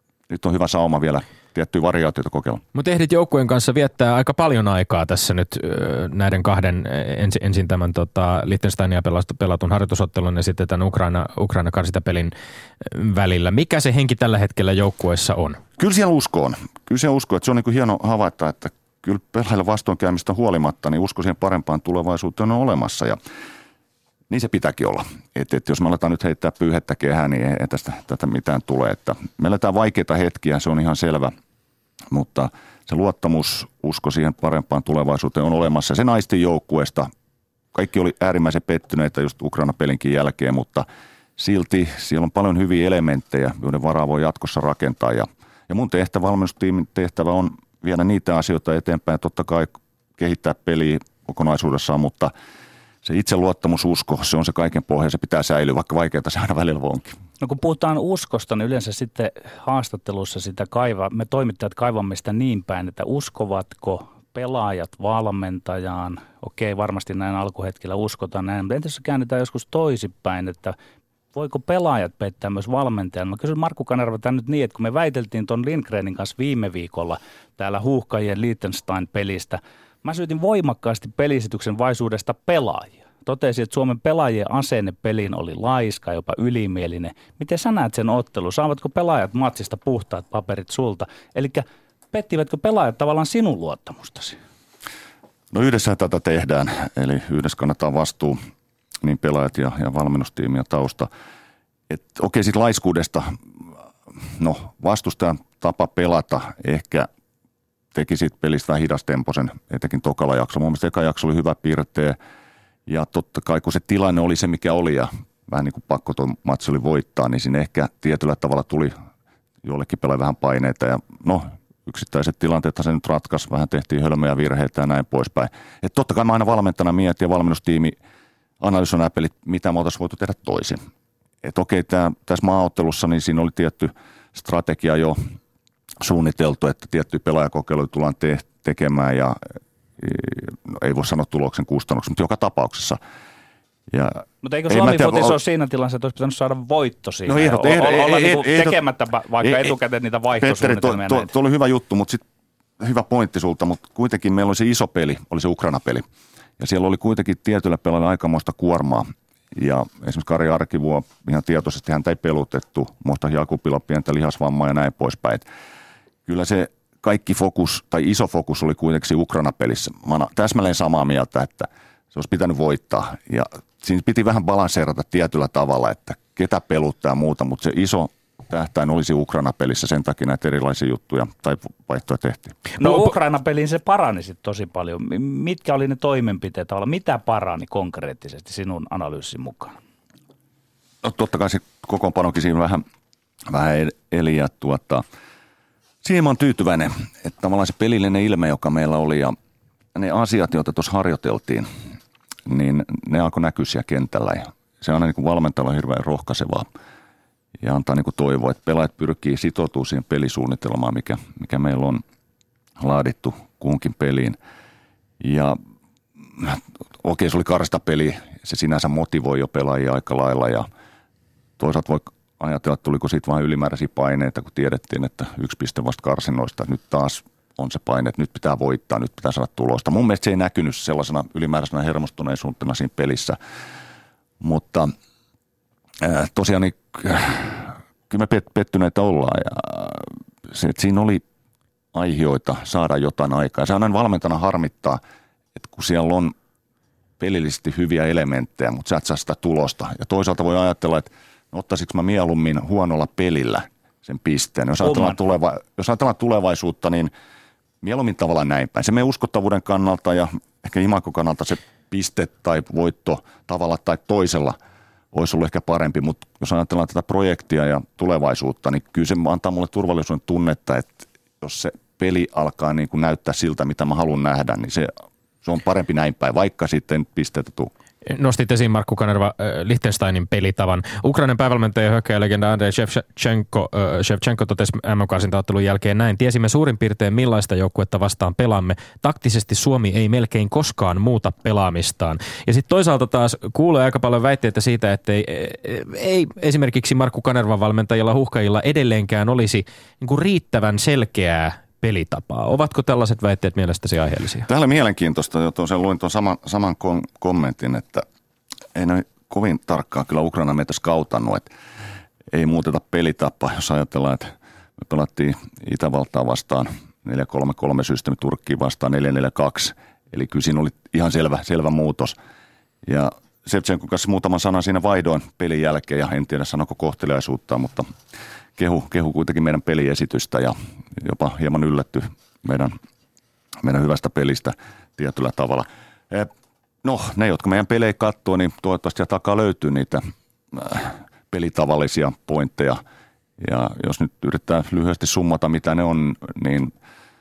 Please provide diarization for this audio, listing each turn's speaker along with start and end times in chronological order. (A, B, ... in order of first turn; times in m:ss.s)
0:00.3-0:02.6 A
0:02.7-0:15.6 B
0:15.8-0:23.2 A
0:24.3-0:31.3 A
0:32.1-0:37.1 A
0:37.7-0:40.8 A
0:41.4-0:52.3 A
0:53.0-0:57.1 A
0:57.4-1:10.8 C
1:11.3-1:34.4 C
1:35.5-1:38.4 A
1:39.0-1:41.1 A
1:41.9-1:43.4 A
1:44.2-1:47.1 A
1:47.9-1:52.2 A
1:52.8-1:58.9 A
1:59.6-2:08.0 A
2:08.6-2:10.8 A
2:11.4-2:15.2 A
2:16.0-2:19.4 A
2:20.0-2:23.0 A
2:23.9-2:25.4 A
2:24.4-2:31.3 C
2:27.2-2:28.8 A
2:29.4-2:29.7 A
2:30.4-2:32.2 A
2:32.8-2:36.0 A
2:36.6-2:45.4 A
2:46.2-3:02.6 A
3:02.8-3:09.7 C
3:11.0-3:12.8 A
3:13.5-3:15.0 A
3:16.0-3:19.3 A
3:19.9-3:21.7 A
3:22.4-3:26.7 A
3:27.6-3:32.0 A
3:32.8-3:34.4 A
3:35.2-3:35.6 A
3:36.4-3:40.7 A
3:41.6-3:53.4 A
3:54.4-3:54.9 A
3:56.0-4:01.2 A
4:01.9-4:05.0 A
4:05.6-4:06.3 A
4:07.2-4:17.1 A
4:14.8-4:15.2 C
4:17.8-4:24.6 A
4:25.1-4:34.9 A
4:35.4-4:37.7 A
4:38.0-5:04.5 B
5:04.4-5:08.0 A
5:08.7-5:11.5 A
5:12.3-5:22.2 A
5:22.8-5:27.9 A
5:28.6-5:32.7 A
5:33.6-5:36.3 A
5:36.8-5:42.8 A
5:43.4-5:46.7 A